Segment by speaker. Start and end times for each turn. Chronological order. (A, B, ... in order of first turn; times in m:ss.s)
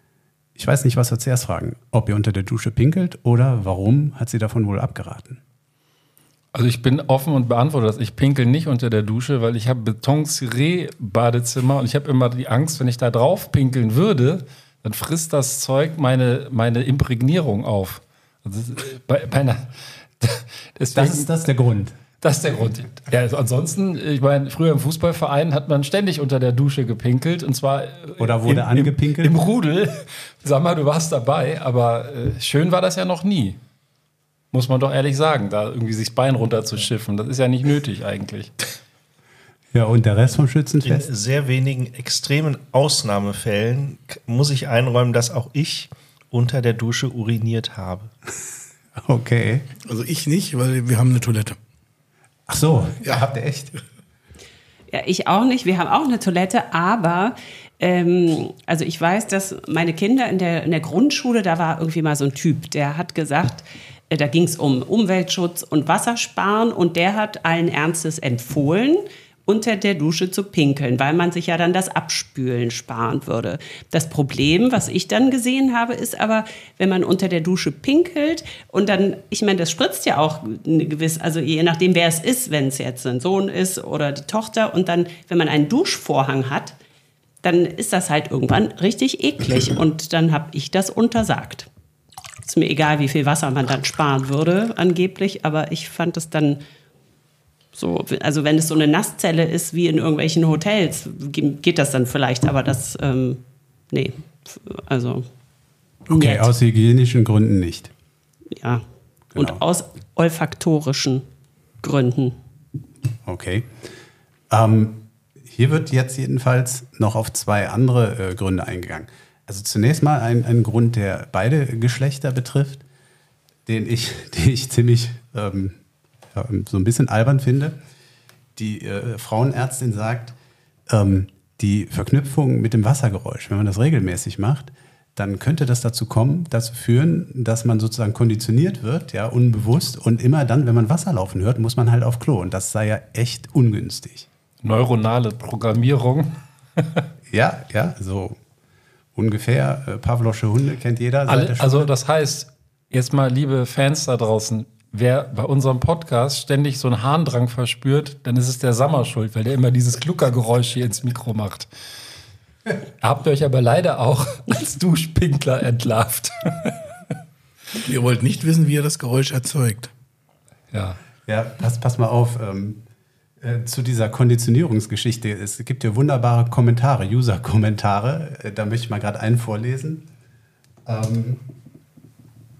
0:00.6-0:05.4 A
0:06.5-0:19.7 B
0:20.2-0:21.3 B
0:20.9-0:22.0 A
0:22.2-0:33.6 B
0:28.2-0:29.3 A
0:34.5-0:38.5 B
0:39.7-0:41.1 A
0:40.8-0:48.1 C
0:49.0-0:49.7 A
0:49.9-0:51.6 D
0:52.5-0:53.7 A
0:54.9-1:26.8 E
1:27.4-1:31.7 E
1:32.4-1:36.6 E
1:37.7-1:43.4 E
1:43.9-1:45.3 E
1:46.1-1:47.9 A
1:46.1-1:46.5 E
1:48.6-1:48.8 E
1:49.3-1:49.6 A
1:49.4-1:51.2 E
1:51.8-1:52.4 E
1:53.2-1:53.7 A
1:54.5-2:02.8 A
2:03.7-2:05.8 A
2:06.3-2:07.8 A
2:08.6-2:10.3 A
2:10.9-2:24.3 A
2:24.6-2:27.0 B
2:27.3-2:28.4 A
2:29.1-2:31.9 A
2:31.3-2:41.7 B
2:43.0-2:46.8 B
2:47.8-2:49.9 D
2:50.7-2:51.0 B
2:51.3-2:52.8 A
2:53.4-3:00.0 A
3:00.8-3:01.4 A